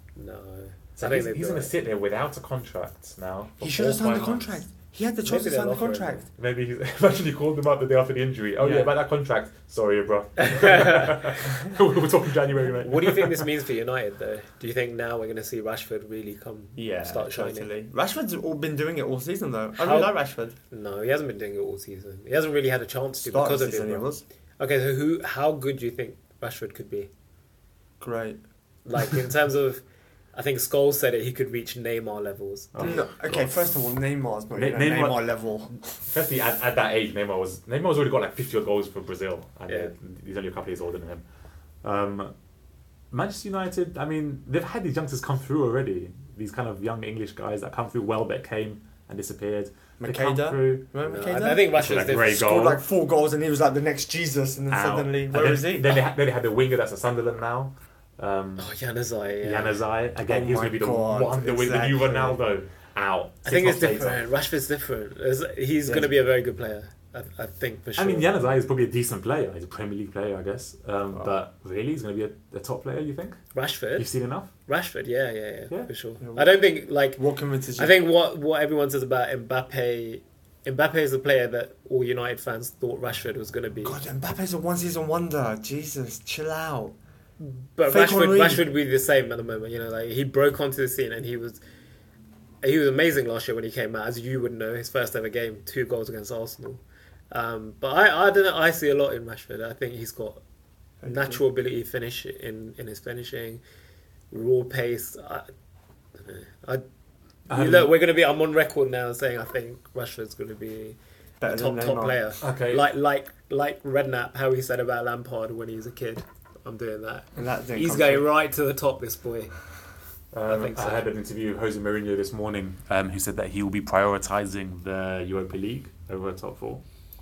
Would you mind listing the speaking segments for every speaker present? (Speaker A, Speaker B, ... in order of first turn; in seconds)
Speaker A: 0.2-1.7, 5.2-6.3, 10.4-11.3, 12.8-17.7, 19.8-20.1, 20.7-27.1, 28.9-29.8, 30.3-33.0, 51.0-52.4, 58.6-59.8, 63.4-68.4, 73.5-74.1, 74.7-77.2, 77.8-84.0, 87.4-91.6, 92.6-100.4, 101.0-103.6, 104.3-105.5, 106.2-106.8, 107.5-119.5, 120.5-121.0
Speaker B: 1.0-4.6, 6.4-13.5, 32.7-33.6, 34.5-41.2, 41.8-42.3, 43.1-50.9, 51.7-52.8, 54.7-58.7, 59.4-64.2, 68.0-74.5, 107.5-107.9, 112.4-112.9, 120.3-126.8
Speaker C: 3.6-6.3, 8.6-8.9, 16.8-20.6, 23.2-24.2, 28.0-28.4, 32.8-35.7, 50.0-56.0, 60.3-62.4, 76.2-76.6, 77.2-77.9, 83.8-87.0, 87.8-88.7, 101.0-101.4, 111.4-112.2, 117.4-118.3